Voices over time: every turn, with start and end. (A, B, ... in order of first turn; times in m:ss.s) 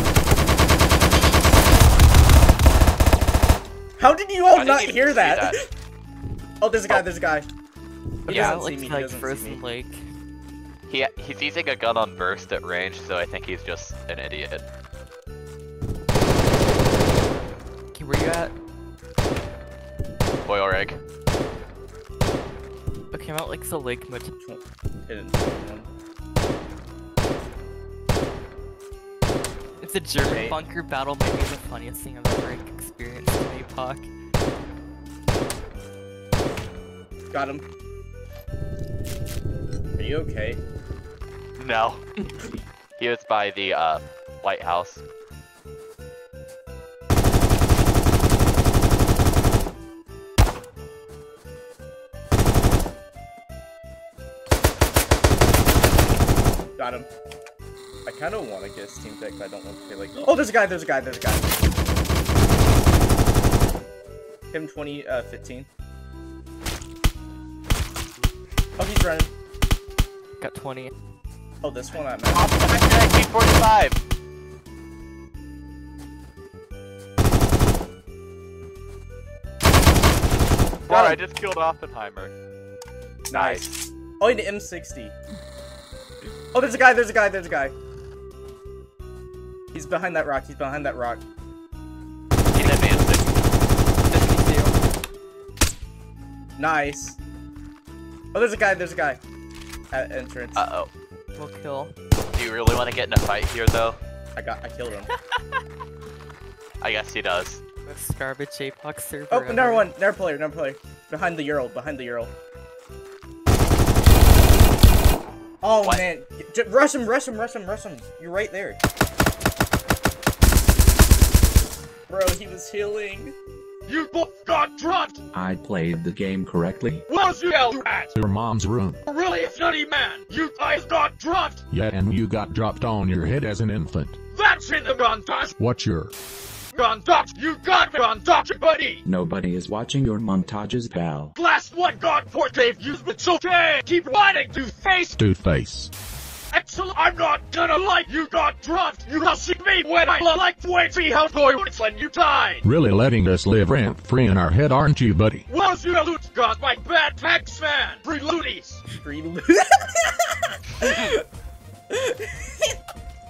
0:04.0-0:05.6 A
0:04.5-0:05.6 B
0:06.6-0:07.5 A
0:08.2-0:10.1 C
0:08.3-0:09.6 A
0:08.3-0:08.6 B
0:10.8-0:14.6 B
0:17.9-0:18.5 C
0:20.4-0:21.0 B
0:23.1-0:24.3 C
0:24.4-0:25.9 A
0:29.8-0:34.1 C
0:30.2-0:30.6 A
0:37.3-0:37.6 A
0:40.0-0:40.6 A
0:41.6-0:42.0 B
0:43.0-0:45.0 B
0:56.8-0:57.1 A
0:58.0-1:01.5 A
1:04.5-1:05.7 A
1:08.8-1:09.3 A
1:10.4-1:10.9 C
1:11.6-1:12.5 A
1:12.3-1:14.0 B
1:20.8-1:22.3 B
1:20.9-1:21.2 A
1:23.3-1:25.1 A
1:23.3-1:23.8 B
1:26.5-1:27.7 A
1:29.7-1:31.2 A
1:32.5-1:33.2 B
1:32.6-1:32.9 C
1:34.1-1:34.8 C
1:36.6-1:37.2 A
1:38.3-1:39.2 A
1:39.9-1:40.6 A
1:40.6-1:40.9 B
1:41.4-1:41.9 C
1:42.3-1:44.0 B
1:44.4-1:45.1 A
1:45.1-1:45.4 C
1:46.8-1:47.6 B
1:47.8-1:49.9 C
1:49.3-1:52.3 A
1:55.6-1:58.8 A
2:02.1-2:03.3 A
2:03.9-2:05.2 D
2:05.3-2:07.0 E
2:07.1-2:08.1 D
2:08.1-2:09.0 F
2:09.0-2:11.6 D
2:11.7-2:14.2 F
2:14.3-2:15.5 D
2:15.6-2:16.1 F
2:16.7-2:19.0 D
2:19.0-2:21.3 E
2:21.4-2:25.2 D
2:25.2-2:25.9 F
2:26.5-2:32.6 D
2:32.6-2:35.4 F
2:35.5-2:38.8 D
2:38.9-2:40.2 A
2:40.8-2:41.2 A
2:41.9-2:42.6 A